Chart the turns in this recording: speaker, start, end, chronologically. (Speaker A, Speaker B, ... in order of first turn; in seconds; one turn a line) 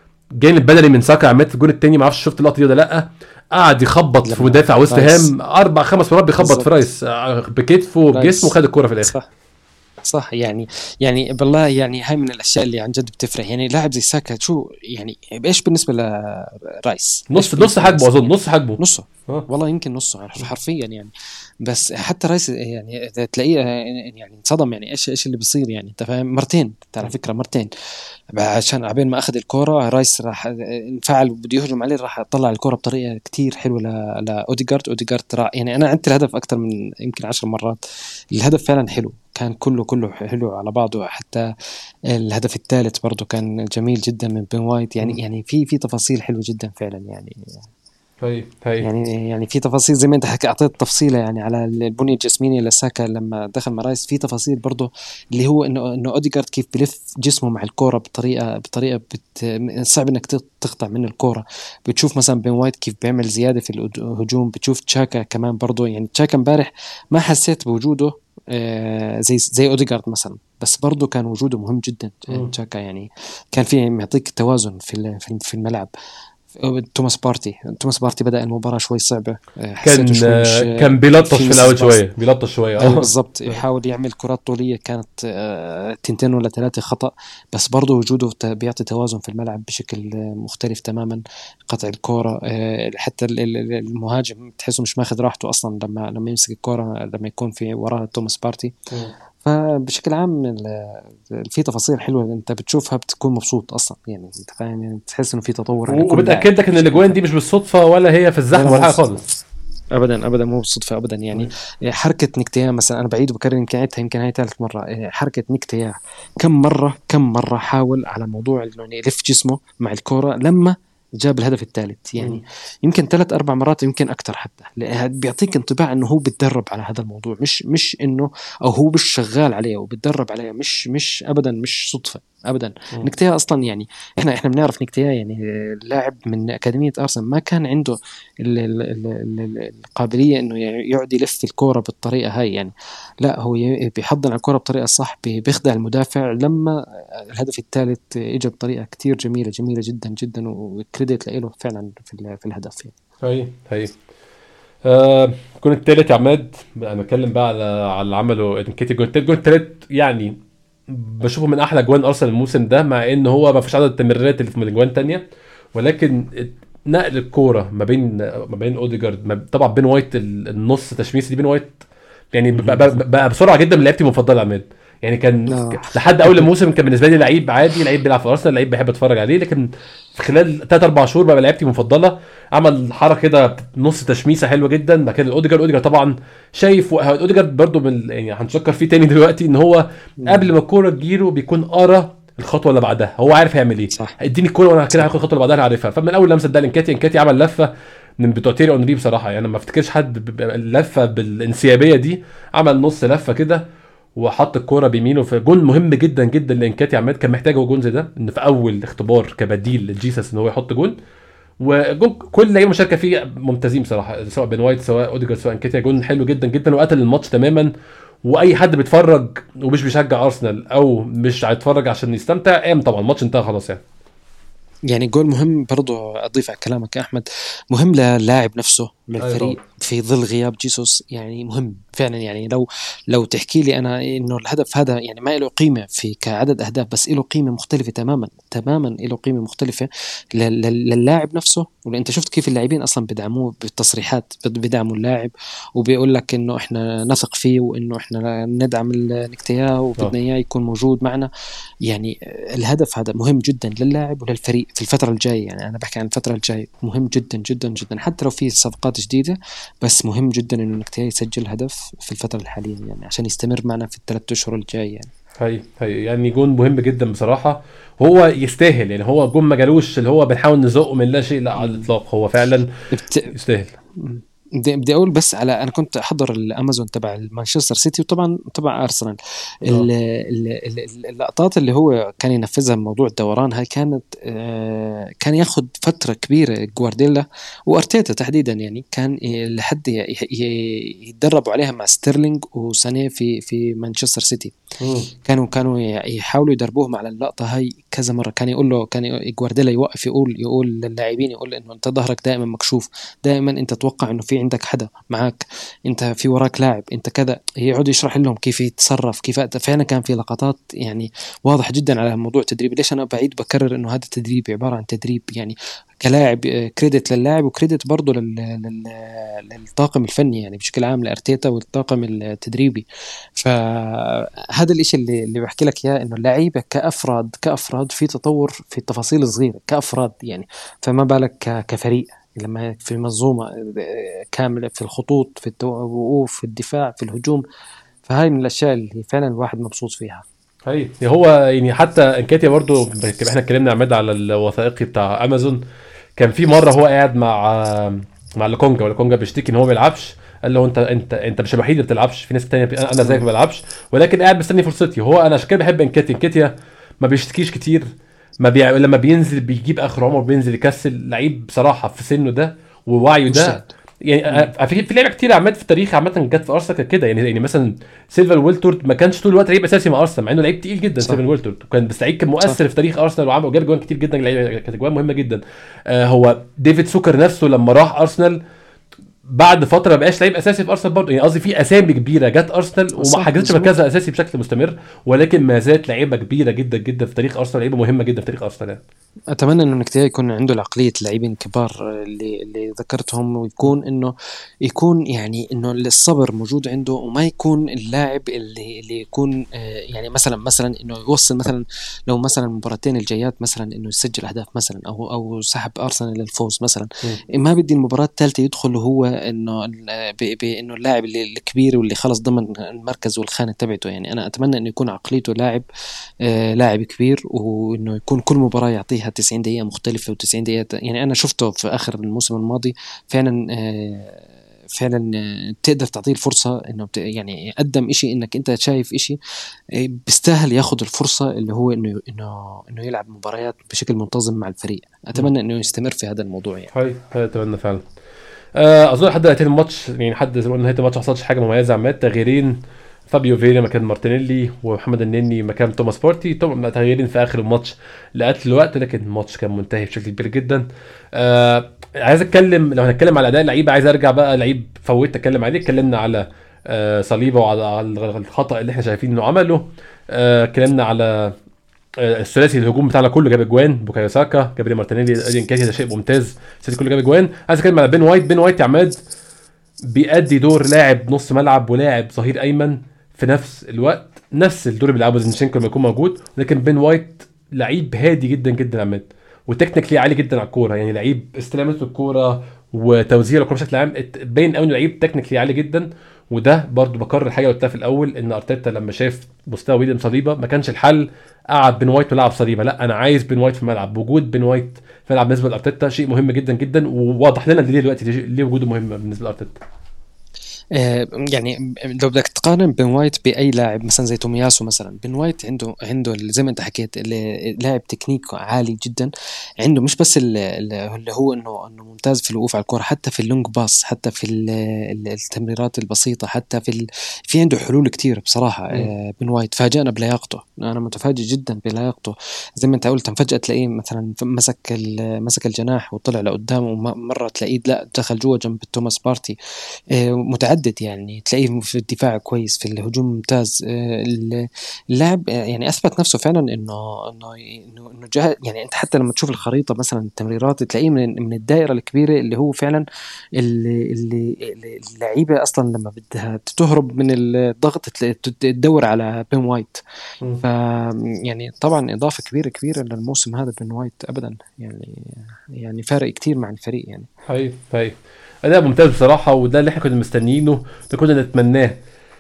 Speaker A: 0.4-9.2
Speaker B: 4.2-5.3
Speaker B: 6.4-6.7
Speaker B: 8.1-9.3
Speaker B: 10.0-21.1
Speaker A: 17.3-19.5
Speaker B: 21.6-27.7
Speaker B: 28.3-37.8
Speaker B: 38.3-41.5
Speaker B: 42.1-47.7
Speaker A: 48.2-48.9
Speaker B: 48.8-75.9
Speaker B: 76.5-82.0
Speaker A: 79.8-83.1
Speaker B: 82.8-98.8
Speaker B: 99.4-107.1
Speaker A: 105.9-109.3
Speaker B: 108.5-109.0
Speaker B: 109.9-152.9
Speaker A: 153.2-153.9
Speaker A: 154.8-171.8
Speaker A: 172.3-211.0
Speaker B: 172.5-172.9
Speaker B: 175.5-176.4
Speaker B: 190.2-190.5
Speaker A: 211.6-217.7
Speaker A: 218.2-223.8
Speaker B: 224.9-251.3
Speaker A: 229.2-229.6
Speaker B: 251.9-265.1
Speaker A: 265.4-272.7
Speaker B: 271.6-271.9
Speaker B: 272.9-273.3
Speaker A: 273.3-273.8
Speaker B: 273.9-294.6
Speaker A: 294.8-295.1
Speaker B: 295.2-322.9
Speaker B: 323.4-337.4
Speaker B: 338.1-340.2
Speaker A: 340.7-345.6
Speaker A: 346.2-378.4
Speaker B: 363.3-363.7
Speaker A: 379.3-388.8
Speaker B: 383.0-383.7
Speaker B: 389.3-415.6
Speaker B: 416.2-429.2
Speaker B: 429.8-436.7
Speaker A: 436.7-437.8
Speaker A: 438.6-461.4
Speaker A: 462.0-469.0
Speaker A: 469.9-499.6
Speaker B: 500.8-529.4
Speaker B: 529.9-542.9
Speaker B: 543.4-549.8
Speaker B: 550.4-557.1
Speaker A: 557.3-561.8